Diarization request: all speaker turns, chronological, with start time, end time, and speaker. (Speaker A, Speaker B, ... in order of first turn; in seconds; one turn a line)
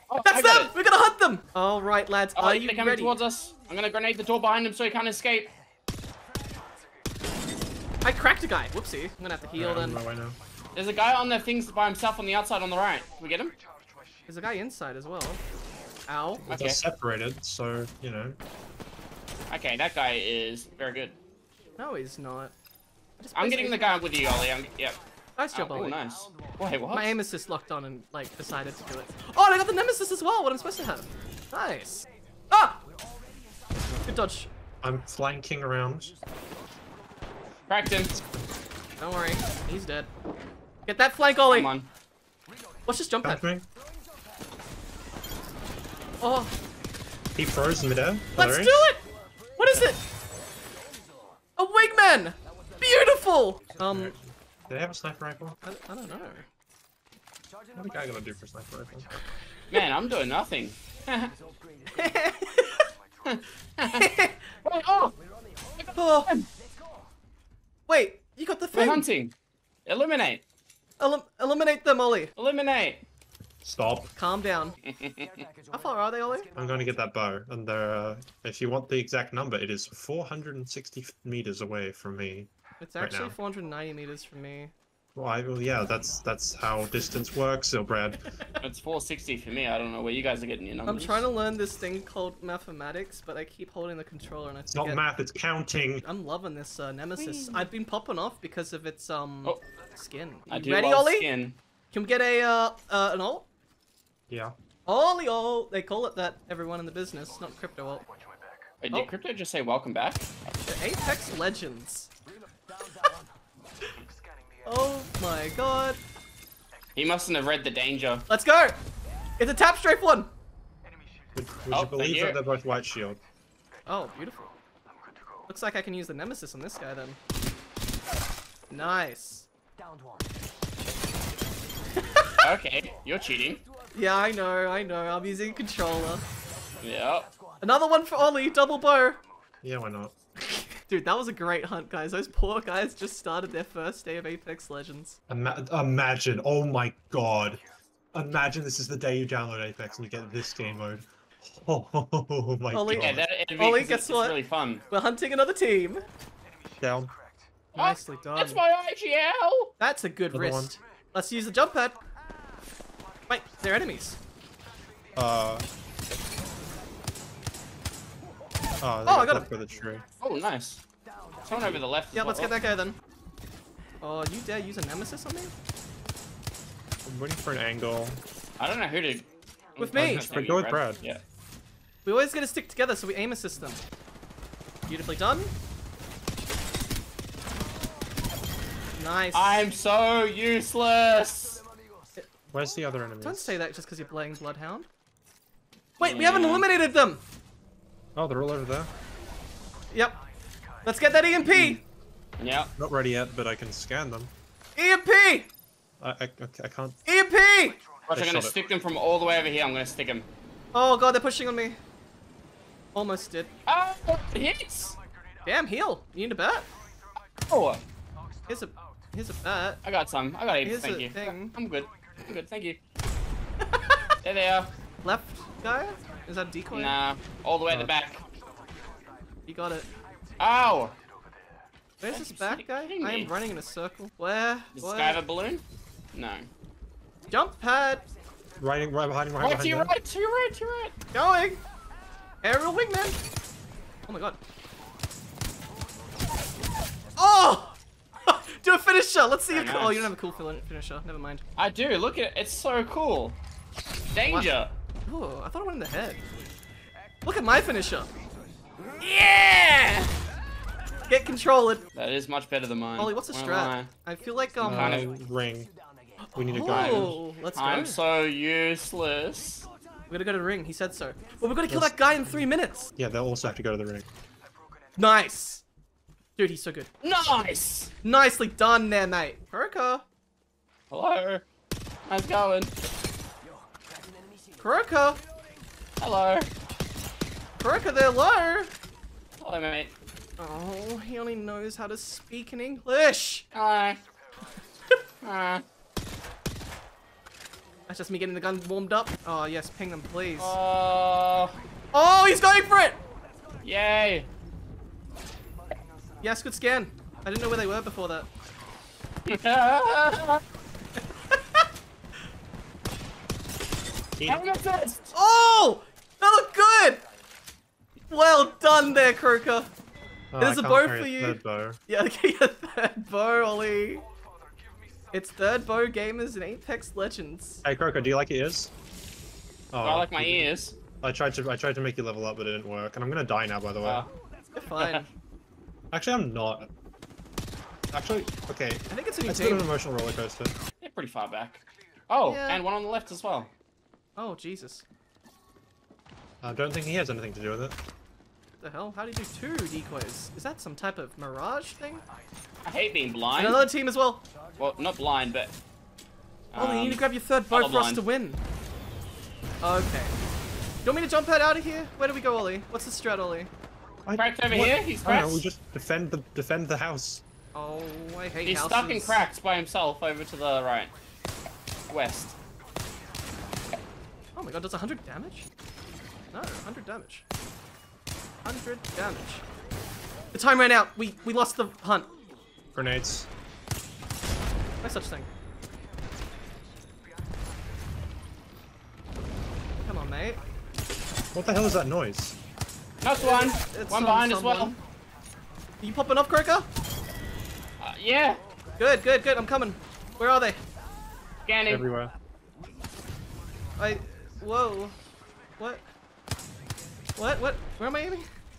Speaker A: 0.1-0.7
Speaker B: 0.2-3.2
Speaker A: 2.4-5.5
Speaker B: 8.0-10.0
Speaker C: 9.6-10.4
Speaker A: 10.8-13.6
Speaker B: 14.3-15.4
Speaker B: 16.1-16.4
Speaker A: 16.5-16.8
Speaker C: 16.5-18.4
Speaker A: 19.5-21.2
Speaker B: 21.8-22.5
Speaker B: 23.2-24.0
Speaker A: 23.4-25.0
Speaker B: 25.4-26.0
Speaker A: 25.5-27.1
Speaker B: 26.9-32.8
Speaker B: 34.1-34.5
Speaker C: 34.8-36.1
Speaker A: 37.7-38.1
Speaker C: 38.1-38.5
Speaker B: 39.0-40.1
Speaker B: 40.9-41.7
Speaker A: 41.5-41.9
Speaker B: 42.9-43.4
Speaker C: 43.2-43.7
Speaker B: 46.2-46.5
Speaker C: 47.4-48.7
Speaker B: 48.4-49.0
Speaker B: 49.6-50.0
Speaker B: 51.6-54.1
Speaker C: 53.8-55.6
Speaker B: 55.6-56.5
Speaker C: 57.7-59.1
Speaker A: 59.7-61.4
Speaker B: 61.9-62.9
Speaker A: 63.2-64.1
Speaker B: 63.9-64.4
Speaker A: 64.7-65.1
Speaker A: 65.8-66.5
Speaker B: 66.0-66.3
Speaker B: 67.9-69.0
Speaker A: 68.7-69.3
Speaker A: 69.9-70.4
Speaker B: 71.0-72.3
Speaker A: 72.4-73.0
Speaker C: 73.6-74.1
Speaker B: 74.2-74.8
Speaker A: 74.8-75.5
Speaker B: 75.7-76.5
Speaker C: 76.5-83.4
Speaker B: 82.8-84.7
Speaker C: 85.2-88.2
Speaker A: 88.6-91.3
Speaker B: 90.9-95.0
Speaker C: 94.7-96.0
Speaker B: 96.0-101.3
Speaker A: 97.2-97.7
Speaker A: 100.5-101.6
Speaker B: 101.9-103.5
Speaker B: 104.9-108.1
Speaker A: 108.8-110.3
Speaker B: 110.7-112.1
Speaker B: 114.7-116.0
Speaker A: 117.0-118.3
Speaker B: 118.3-118.8
Speaker B: 119.4-120.3
Speaker C: 121.3-123.2
Speaker A: 121.7-122.4
Speaker B: 123.9-124.5
Speaker B: 125.5-127.2
Speaker B: 128.7-129.5
Speaker B: 132.0-132.4
Speaker A: 132.4-133.6
Speaker B: 133.9-136.2
Speaker A: 136.8-137.3
Speaker B: 137.6-139.2
Speaker C: 139.6-140.1
Speaker B: 140.4-145.2
Speaker C: 145.3-153.3
Speaker B: 152.7-154.4
Speaker A: 152.9-154.8
Speaker B: 154.9-156.1
Speaker C: 156.8-157.1
Speaker A: 157.7-159.7
Speaker B: 157.8-158.6
Speaker B: 159.8-162.0
Speaker C: 160.3-160.8
Speaker B: 163.3-164.2
Speaker C: 165.2-165.7
Speaker C: 168.8-170.0
Speaker B: 169.1-169.5
Speaker A: 170.2-170.8
Speaker A: 171.4-172.6
Speaker B: 172.2-173.0
Speaker B: 174.0-175.5
Speaker C: 177.1-178.2
Speaker A: 178.6-181.2
Speaker B: 179.8-180.3
Speaker C: 180.0-181.0
Speaker B: 182.1-183.8
Speaker B: 184.9-185.5
Speaker B: 189.0-189.6
Speaker A: 189.3-191.6
Speaker C: 192.5-193.6
Speaker B: 193.2-194.9
Speaker B: 196.0-197.2
Speaker A: 196.0-196.7
Speaker C: 198.2-198.9
Speaker B: 199.9-200.2
Speaker B: 200.8-201.8
Speaker A: 201.5-201.8
Speaker A: 202.4-202.7
Speaker C: 202.8-204.3
Speaker B: 204.8-205.5
Speaker C: 206.0-207.0
Speaker B: 207.1-207.8
Speaker A: 208.1-210.3
Speaker C: 208.1-208.6
Speaker B: 210.7-211.8
Speaker B: 212.9-213.5
Speaker A: 213.7-215.0
Speaker B: 215.4-216.7
Speaker A: 217.4-217.8
Speaker B: 218.5-219.8
Speaker A: 219.8-222.8
Speaker B: 220.6-221.6
Speaker B: 223.6-224.1
Speaker A: 224.2-224.7
Speaker B: 225.0-227.0
Speaker A: 226.7-228.2
Speaker B: 229.5-229.9
Speaker A: 230.4-230.9
Speaker B: 232.0-235.2
Speaker A: 232.1-233.3
Speaker A: 234.8-236.5
Speaker B: 237.3-238.1
Speaker C: 238.6-239.9
Speaker A: 239.4-241.0
Speaker B: 241.1-241.6
Speaker B: 242.4-243.2
Speaker B: 244.1-244.4
Speaker B: 247.2-251.4
Speaker A: 249.5-250.1
Speaker A: 251.6-253.4
Speaker A: 254.1-254.7
Speaker B: 254.2-254.5
Speaker B: 255.1-256.2
Speaker B: 257.2-258.1
Speaker B: 259.0-260.1
Speaker B: 261.1-261.9
Speaker A: 261.9-263.9
Speaker B: 263.0-265.1
Speaker C: 264.6-265.7
Speaker A: 264.6-265.1
Speaker B: 266.2-268.0
Speaker C: 266.4-267.2
Speaker A: 266.7-269.7
Speaker B: 270.1-272.9
Speaker C: 271.7-274.1
Speaker B: 275.0-275.6
Speaker B: 276.4-276.9
Speaker A: 277.0-277.9
Speaker B: 278.0-280.0
Speaker A: 280.9-281.4
Speaker A: 282.1-282.7
Speaker B: 284.6-285.2
Speaker A: 286.0-286.5
Speaker B: 287.6-288.7
Speaker A: 289.4-289.9
Speaker B: 290.4-293.5
Speaker A: 293.5-294.0
Speaker A: 295.2-295.6
Speaker B: 297.9-300.6
Speaker A: 300.4-301.6
Speaker B: 301.9-303.0
Speaker A: 303.6-304.3
Speaker B: 306.2-308.3
Speaker A: 309.3-310.4
Speaker B: 311.3-311.6
Speaker A: 314.3-315.1
Speaker B: 315.1-317.0
Speaker B: 318.1-319.7
Speaker C: 320.3-321.8
Speaker B: 320.4-324.1
Speaker B: 325.1-327.6
Speaker C: 327.6-328.7
Speaker C: 329.7-334.1
Speaker A: 329.8-330.8
Speaker B: 334.6-335.1
Speaker A: 334.8-335.1
Speaker C: 335.9-336.7
Speaker C: 337.9-340.5
Speaker B: 338.9-339.7
Speaker A: 340.8-343.5
Speaker B: 342.3-342.6
Speaker B: 344.2-344.9
Speaker C: 346.4-347.8
Speaker B: 348.6-352.0
Speaker A: 352.6-353.7
Speaker B: 353.3-354.2
Speaker A: 354.6-355.6
Speaker A: 356.5-358.0
Speaker B: 356.6-358.4
Speaker B: 359.6-360.1
Speaker B: 360.9-363.5
Speaker C: 364.1-367.2
Speaker A: 364.2-365.4
Speaker B: 367.6-369.2
Speaker A: 368.5-370.9
Speaker A: 371.9-372.4
Speaker B: 374.4-375.5
Speaker B: 376.3-377.2
Speaker B: 378.4-379.4
Speaker B: 380.3-382.1
Speaker C: 382.8-383.3
Speaker B: 384.8-385.3
Speaker B: 389.8-390.4
Speaker C: 391.3-392.4
Speaker A: 393.0-394.8
Speaker B: 393.2-394.8
Speaker B: 395.8-396.7
Speaker A: 397.8-398.4
Speaker B: 398.8-400.6
Speaker A: 401.5-401.9
Speaker C: 401.7-402.1
Speaker B: 403.8-405.0
Speaker B: 407.2-408.3